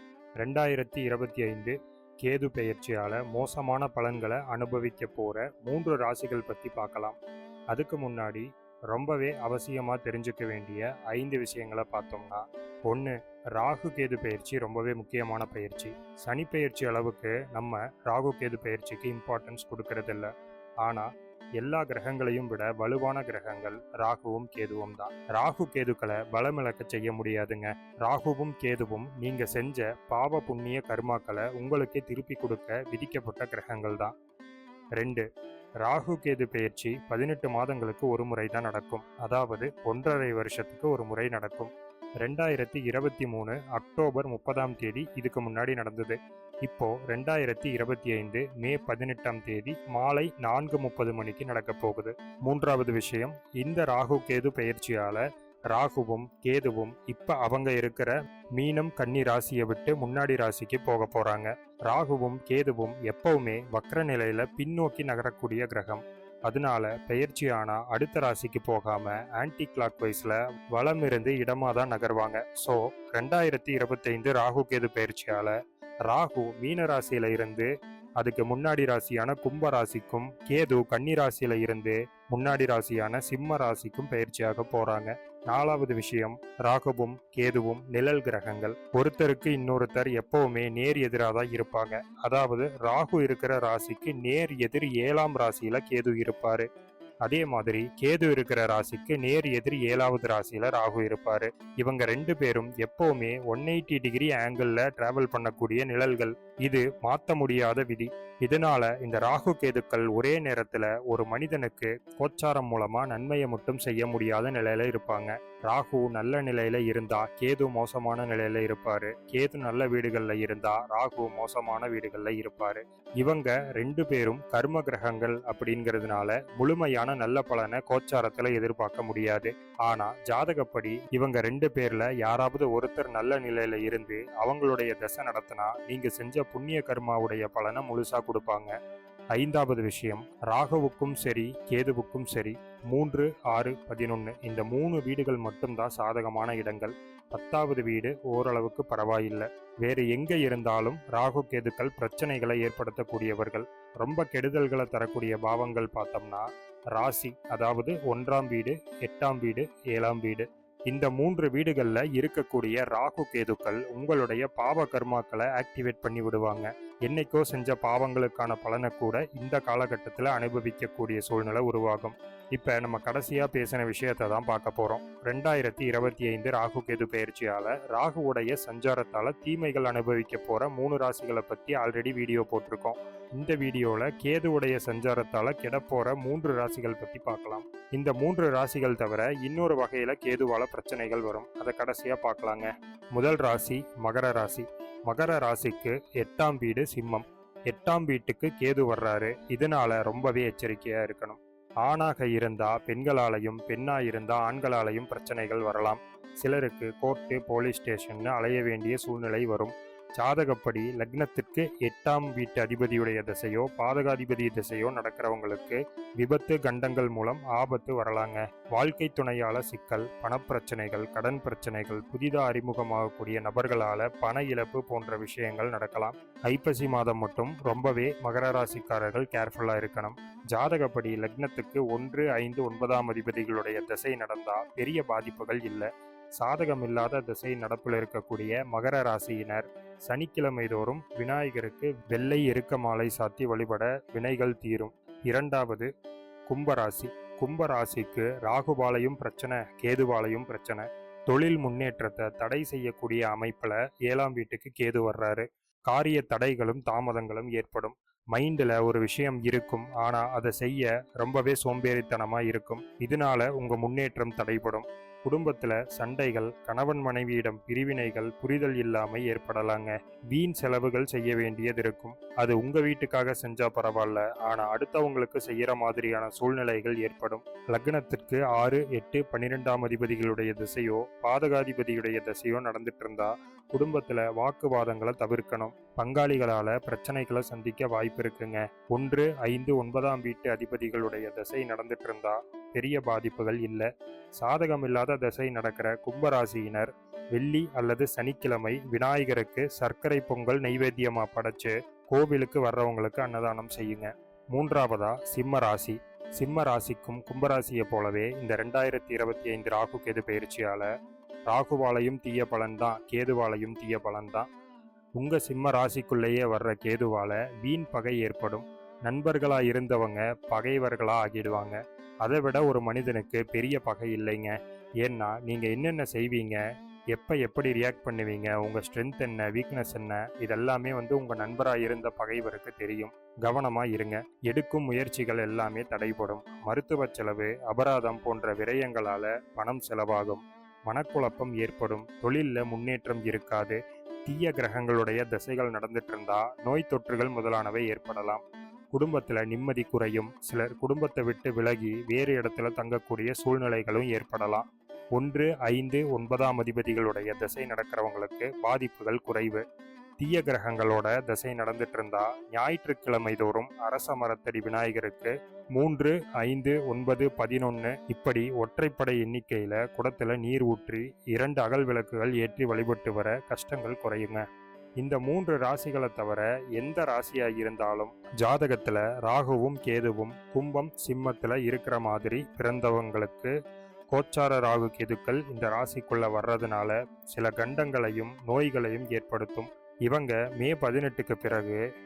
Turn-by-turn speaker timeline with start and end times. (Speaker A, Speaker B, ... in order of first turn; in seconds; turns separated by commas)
Speaker A: 0.4-7.2, Speaker A: 7.7-20.3, Speaker A: 20.8-21.1, Speaker A: 21.6-34.1, Speaker A: 35.0-35.2, Speaker A: 35.8-41.7, Speaker A: 42.2-75.5, Speaker A: 76.1-96.7, Speaker A: 97.2-138.7, Speaker A: 139.3-235.9, Speaker A: 236.4-245.9, Speaker A: 246.5-293.9, Speaker A: 294.4-310.9, Speaker A: 311.5-314.5, Speaker A: 315.2-326.6, Speaker A: 327.1-348.4, Speaker A: 348.9-359.6, Speaker A: 360.2-374.4, Speaker A: 375.0-383.5, Speaker A: 384.1-391.8